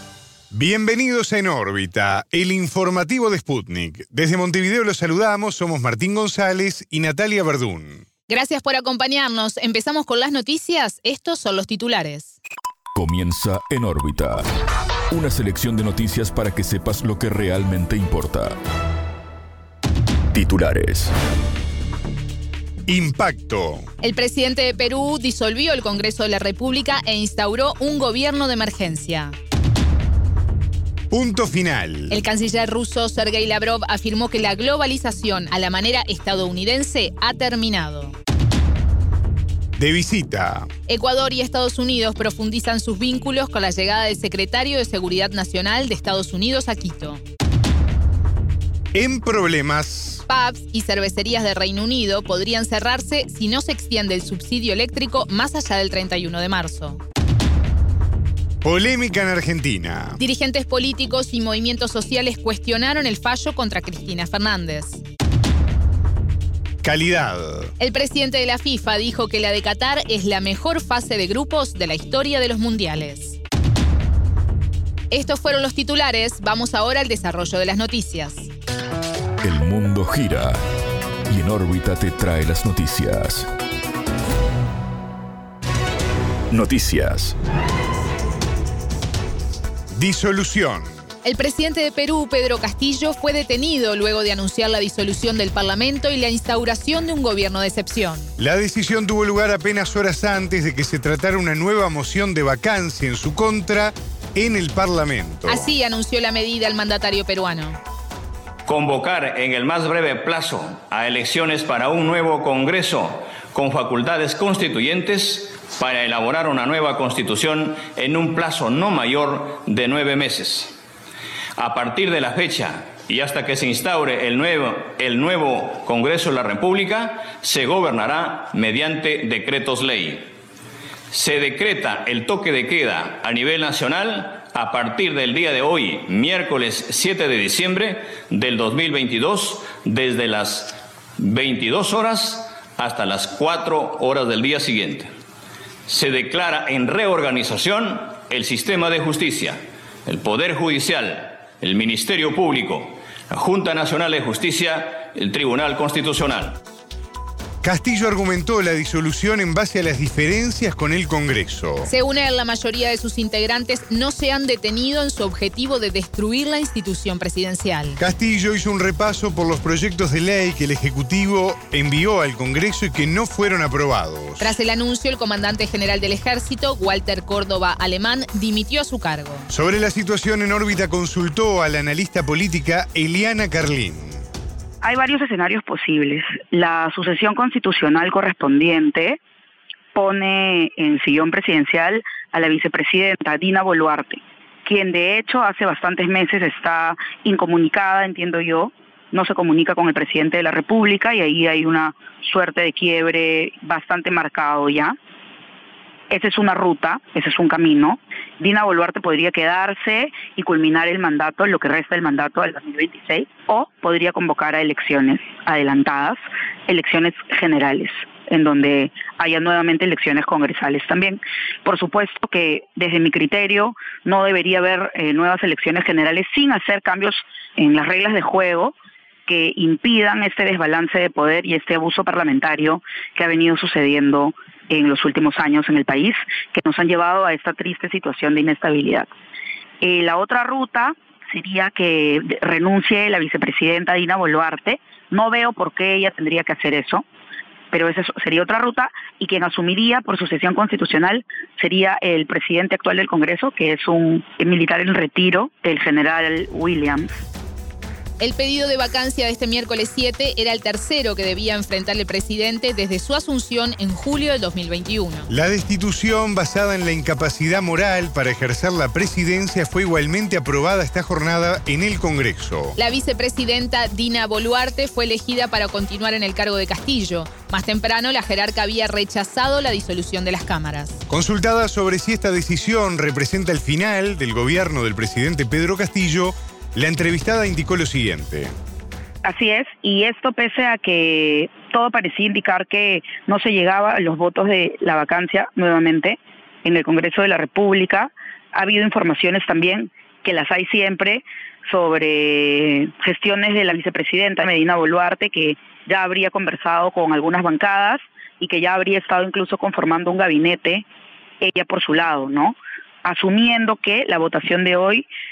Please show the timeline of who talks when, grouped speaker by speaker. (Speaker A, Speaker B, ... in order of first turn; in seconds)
Speaker A: 0.5-8.0, 22.9-23.8, 31.1-32.2, 39.7-40.7, 48.9-50.2, 58.6-60.2, 66.8-67.7, 90.0-90.9, 98.4-105.7, 157.6-161.9, 168.0-174.6, 179.5-184.2, 265.3-272.8, 281.1-288.6
Speaker B: 8.3-12.3, 24.0-29.4, 32.1-38.1, 40.9-47.2, 50.3-57.0, 60.2-65.0, 67.8-73.4, 75.1-78.5, 91.2-98.3, 105.5-107.8, 161.9-168.0, 174.4-179.5, 258.2-265.3, 272.8-281.0
Speaker C: 12.9-14.4, 15.1-18.5, 20.3-21.1, 79.4-80.6, 81.3-83.5, 86.5-87.3
Speaker D: 108.7-120.7, 121.6-130.2, 131.1-145.1, 145.9-156.6
Speaker E: 184.8-189.2, 189.9-205.0, 206.1-228.8, 229.3-239.1, 239.8-247.1, 247.7-257.1, 289.2-310.9, 311.4-315.1